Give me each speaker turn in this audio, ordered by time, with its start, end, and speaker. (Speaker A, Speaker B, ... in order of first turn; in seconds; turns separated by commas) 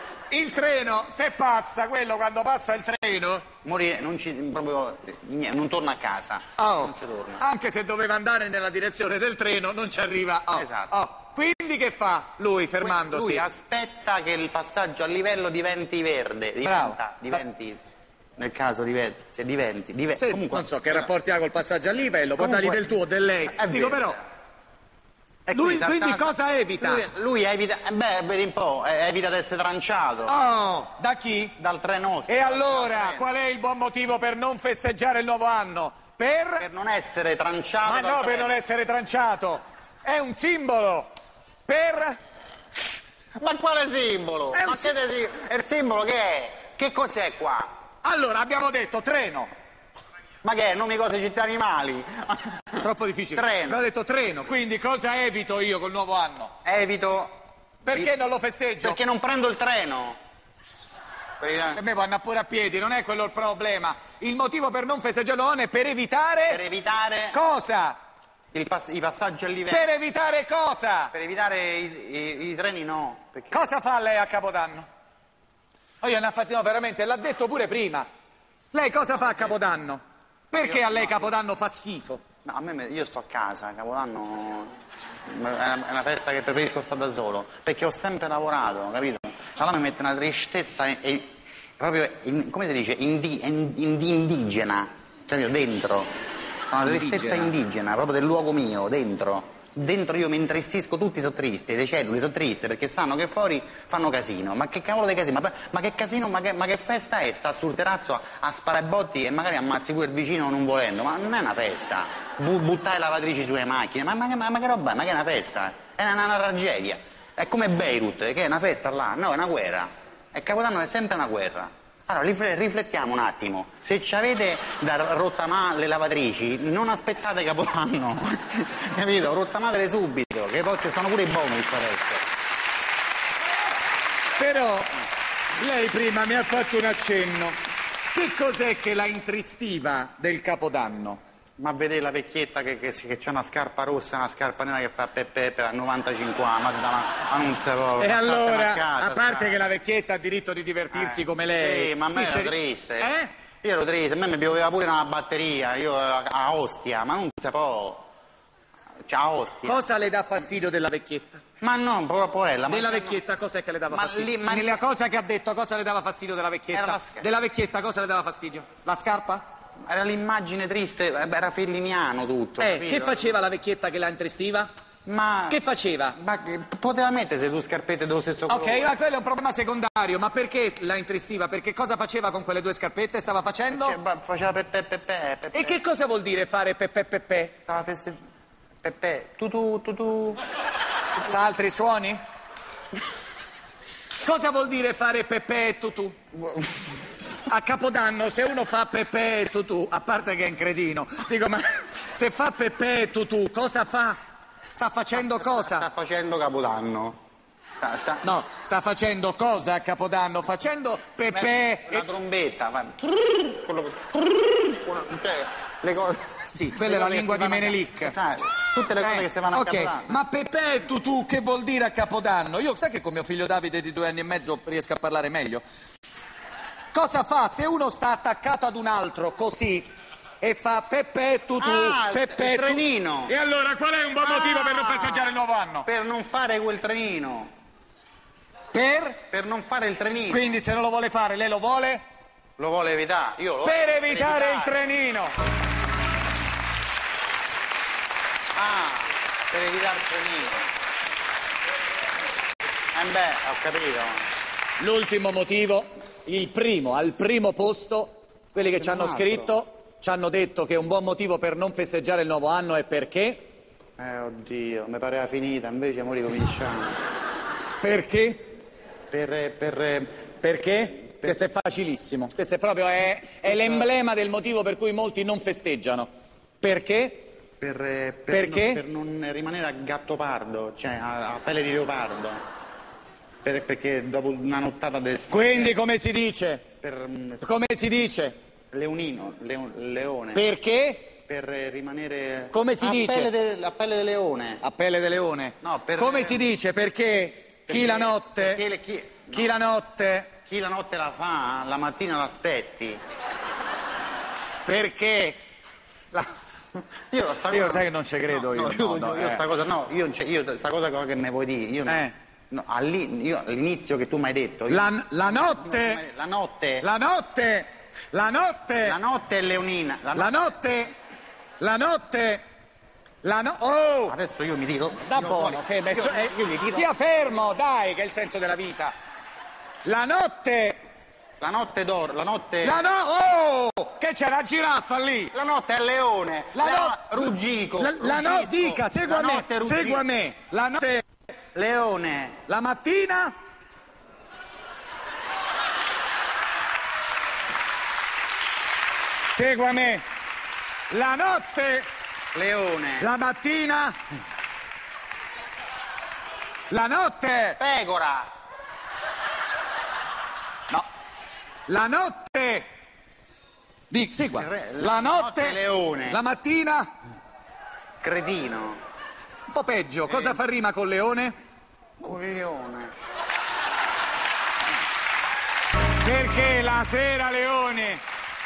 Speaker A: 0.3-3.5, Speaker B: 3.6-7.4, Speaker A: 6.6-13.4, Speaker B: 10.5-10.9, Speaker B: 12.8-17.8, Speaker A: 16.6-17.4, Speaker B: 18.4-21.1, Speaker A: 20.2-24.2, Speaker B: 22.4-22.9, Speaker B: 23.5-24.2, Speaker A: 25.5-27.1, Speaker B: 25.5-30.4, Speaker A: 30.3-31.6, Speaker B: 31.6-33.3, Speaker A: 32.3-36.7, Speaker B: 36.6-38.5, Speaker A: 37.9-41.1, Speaker A: 41.7-42.2, Speaker B: 43.4-47.7, Speaker A: 44.5-45.0, Speaker A: 48.0-49.5, Speaker B: 50.4-52.8, Speaker A: 52.8-56.5, Speaker B: 53.3-53.8, Speaker B: 56.6-57.4, Speaker A: 57.9-59.0, Speaker B: 57.9-58.1, Speaker B: 58.8-60.2, Speaker B: 61.4-61.8, Speaker A: 61.8-66.6, Speaker B: 66.5-67.4, Speaker A: 67.3-68.0, Speaker B: 68.5-69.9, Speaker A: 69.7-71.1, Speaker B: 71.1-73.7, Speaker A: 73.5-74.9, Speaker A: 76.0-78.1, Speaker A: 78.7-82.2, Speaker B: 80.6-81.3, Speaker B: 82.5-84.7, Speaker B: 85.3-96.1, Speaker B: 96.7-132.2, Speaker A: 96.8-97.5, Speaker A: 134.4-135.0, Speaker A: 135.6-137.6, Speaker A: 138.1-141.2, Speaker B: 141.6-149.7, Speaker A: 148.0-153.3, Speaker B: 150.9-153.1, Speaker B: 153.6-158.1, Speaker B: 159.1-159.8, Speaker A: 159.6-161.4, Speaker B: 161.6-163.2, Speaker A: 162.7-169.4, Speaker B: 163.9-164.8, Speaker B: 166.7-167.3, Speaker B: 169.9-173.3, Speaker A: 172.6-174.7, Speaker B: 175.1-175.6, Speaker A: 175.5-176.2, Speaker B: 176.2-178.9, Speaker A: 178.5-184.0, Speaker B: 183.7-185.8, Speaker A: 185.5-187.5, Speaker B: 187.6-188.2, Speaker B: 188.8-190.4, Speaker A: 191.2-192.2, Speaker A: 194.2-196.2, Speaker A: 197.5-204.2, Speaker A: 204.7-205.9, Speaker B: 205.1-207.2, Speaker B: 207.8-208.3, Speaker A: 208.2-212.1, Speaker B: 211.3-220.2, Speaker A: 216.5-225.6, Speaker A: 226.9-229.9, Speaker A: 230.4-235.9, Speaker B: 231.6-233.3, Speaker B: 234.2-235.3, Speaker B: 235.9-237.5, Speaker A: 238.7-239.2, Speaker B: 239.3-240.5, Speaker A: 240.3-242.0, Speaker B: 242.6-244.8, Speaker A: 243.6-245.3, Speaker B: 248.6-250.7, Speaker B: 252.9-254.2, Speaker A: 254.8-263.5, Speaker B: 258.7-259.5, Speaker B: 264.0-267.0, Speaker A: 267.8-268.6, Speaker B: 269.1-270.2, Speaker A: 270.4-276.1, Speaker B: 273.4-273.9, Speaker A: 276.6-277.3, Speaker B: 277.6-282.4, Speaker A: 278.3-278.8, Speaker B: 283.4-285.8, Speaker A: 285.3-286.6, Speaker B: 286.8-287.5, Speaker A: 287.4-288.4, Speaker B: 288.7-290.5, Speaker A: 290.4-291.1, Speaker B: 291.2-294.6, Speaker A: 292.5-293.3, Speaker A: 294.6-298.6, Speaker B: 295.6-296.5, Speaker B: 297.7-299.6, Speaker A: 299.3-300.3, Speaker B: 300.5-303.0, Speaker A: 304.7-305.4, Speaker B: 307.1-316.9, Speaker A: 307.5-309.4, Speaker A: 311.9-312.1, Speaker A: 314.7-316.0, Speaker A: 316.8-319.0, Speaker B: 318.8-320.4, Speaker A: 320.1-320.9, Speaker A: 321.6-322.4, Speaker A: 323.2-324.2, Speaker B: 324.1-326.9, Speaker A: 325.0-328.9, Speaker A: 329.8-330.8, Speaker B: 331.4-332.9, Speaker A: 332.6-335.3, Speaker B: 335.3-340.0, Speaker A: 336.5-341.1, Speaker B: 341.6-342.4, Speaker A: 342.5-343.3, Speaker A: 349.3-350.0, Speaker A: 350.9-351.9, Speaker B: 352.3-353.1, Speaker A: 353.0-354.0, Speaker A: 356.7-357.6, Speaker B: 357.6-358.3, Speaker A: 361.7-362.7, Speaker A: 363.9-365.6, Speaker B: 364.4-366.2, Speaker A: 366.1-366.9, Speaker B: 368.0-368.8, Speaker A: 369.5-371.4, Speaker B: 370.1-370.4, Speaker B: 372.0-372.9, Speaker A: 376.0-378.0